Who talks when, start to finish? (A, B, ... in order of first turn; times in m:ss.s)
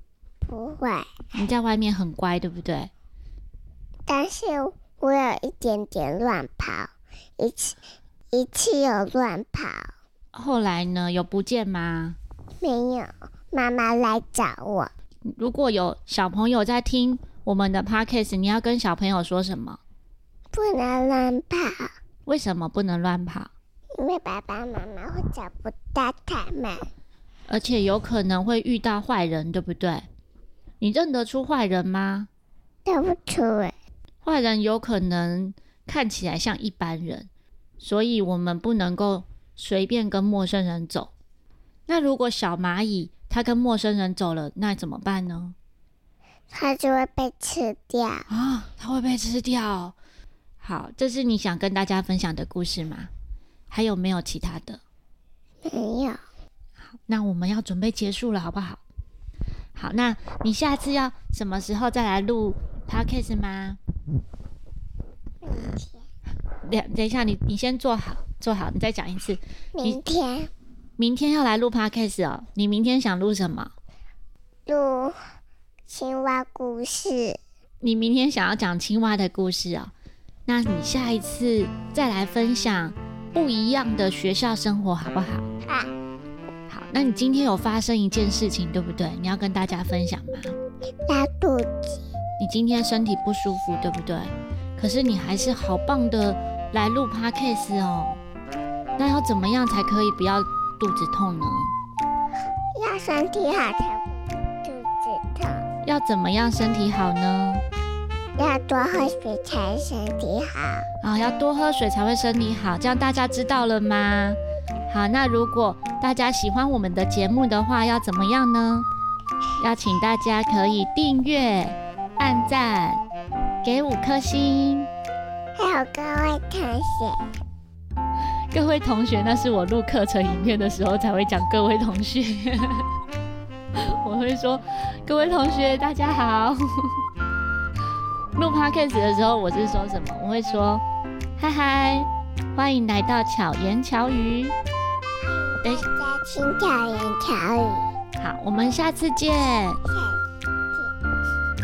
0:00.4-0:01.2 A
0:01.3-0:02.9 B
0:04.1-0:07.8 A
0:08.3-0:09.9 A
0:10.3-0:12.2 B
0:12.6-0:14.9 A
0:15.4-0:19.8 B
0:20.5-0:21.9 A
0:22.2-0:23.5 B
0:24.0-0:26.8 A
0:27.5-0:30.0 B
0:30.8-0:32.3 B
0:32.8-0:33.8 A
0:34.2-0:37.3 B
0:37.8-0:41.1 B
0:41.9-0:45.5 B
0:46.5-0:48.3 A
0:48.3-0:50.0 B
0:50.6-0:53.1 B
0:53.7-0:54.8 B
0:55.6-0:56.2 A
0:56.9-0:58.8 B
0:59.8-1:03.8 B
1:05.4-1:06.0 A
1:06.6-1:10.0 B
1:09.8-1:10.5 A
1:11.0-1:13.7 B
1:14.7-1:15.2 A
1:15.9-1:17.4 A
1:17.8-1:19.9 B
1:20.5-1:25.5 B
1:25.6-1:25.9 A
1:26.7-1:30.5 B
1:31.1-1:32.0 A
1:32.4-1:38.2 B
1:39.0-1:41.7 B
1:42.8-1:45.6 A
1:45.8-1:47.6 B
1:48.4-1:50.9 A
1:51.0-1:58.9 B
1:59.6-2:03.0 B
2:03.6-2:04.9 B
2:05.6-2:07.2 A
2:08.5-2:12.8 B
2:13.8-2:16.6 B
2:18.3-2:20.8 B
2:21.4-2:24.5 B
2:25.2-2:27.9 A
2:28.2-2:29.8 B
2:29.8-2:30.2 A